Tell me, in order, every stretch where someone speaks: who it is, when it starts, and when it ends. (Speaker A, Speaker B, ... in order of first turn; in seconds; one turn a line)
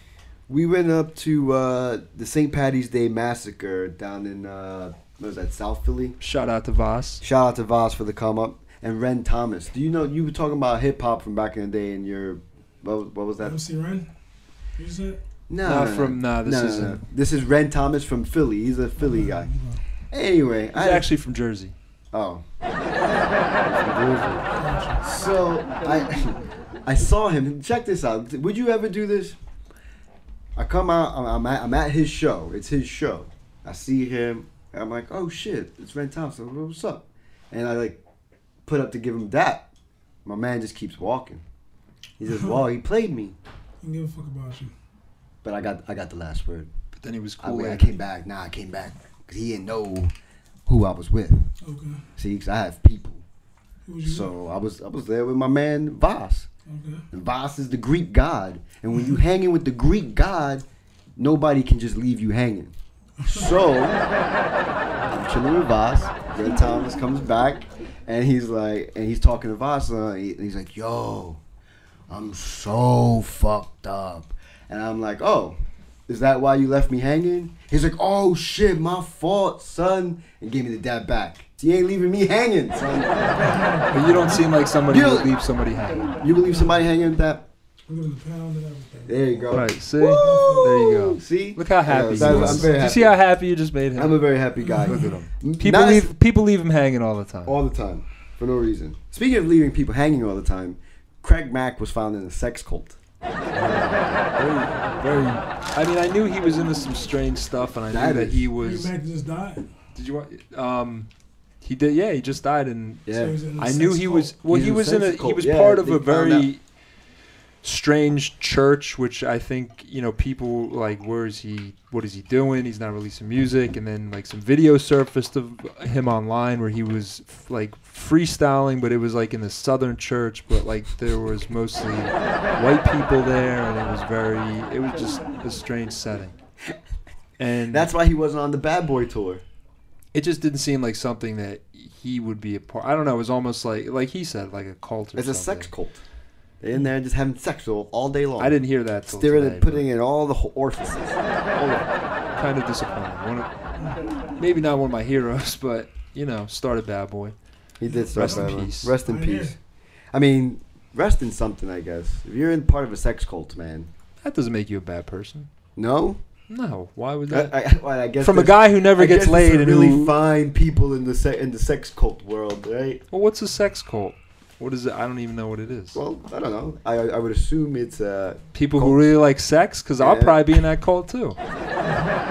Speaker A: 0.5-6.2
Speaker B: 6.2-7.2
Speaker A: 7.2-13.6
Speaker C: 13.4-14.1
Speaker C: 14.8-15.2
Speaker A: 15.5-19.5
Speaker B: 15.6-17.0
Speaker C: 19.0-19.8
Speaker A: 20.1-21.1
Speaker B: 20.7-21.7
Speaker A: 22.1-22.4
Speaker A: 23.6-24.4
Speaker C: 24.6-25.0
Speaker A: 25.0-29.4
Speaker A: 30.6-38.0
Speaker A: 38.6-39.7
Speaker A: 40.2-41.4
Speaker A: 42.2-43.4
Speaker C: 43.8-44.7
Speaker A: 45.4-46.7
Speaker B: 47.0-47.9
Speaker A: 47.4-50.1
Speaker A: 50.6-51.5
Speaker C: 51.6-52.0
Speaker A: 52.2-53.2
Speaker C: 53.9-54.3
Speaker A: 54.0-56.5
Speaker C: 56.7-57.0
Speaker A: 57.1-60.6
Speaker A: 61.2-62.7
Speaker C: 63.2-63.6
Speaker A: 63.2-64.0
Speaker A: 65.1-71.4
Speaker A: 72.1-83.5
Speaker C: 83.4-84.4
Speaker B: 83.9-86.1
Speaker A: 84.9-85.3
Speaker A: 86.2-87.5
Speaker C: 86.4-86.8
Speaker C: 87.9-90.7
Speaker A: 89.1-93.2
Speaker B: 89.5-94.2
Speaker C: 92.2-92.8
Speaker A: 94.0-96.1
Speaker C: 94.6-95.1
Speaker B: 94.8-97.5
Speaker A: 97.5-103.0
Speaker A: 103.5-104.1
Speaker B: 104.1-108.9
Speaker A: 107.9-108.5
Speaker C: 108.6-109.7
Speaker B: 109.9-111.1
Speaker B: 111.6-116.6
Speaker A: 113.0-113.3
Speaker C: 113.1-114.3
Speaker A: 114.5-116.5
Speaker B: 117.6-136.4
Speaker B: 137.4-137.9
Speaker A: 137.7-139.4
Speaker B: 140.1-145.7
Speaker A: 145.2-146.0
Speaker A: 146.6-151.9
Speaker B: 148.4-149.8
Speaker B: 152.4-153.5
Speaker B: 154.4-157.3
Speaker A: 157.8-159.6
Speaker C: 157.9-159.5
Speaker B: 158.1-158.9
Speaker A: 160.1-163.9
Speaker B: 164.2-165.5
Speaker A: 165.8-166.2
Speaker B: 166.5-167.5
Speaker A: 167.3-173.0
Speaker B: 168.2-170.1
Speaker B: 173.1-176.0
Speaker A: 175.9-179.1
Speaker B: 178.5-181.4
Speaker A: 180.0-180.4
Speaker C: 181.8-182.2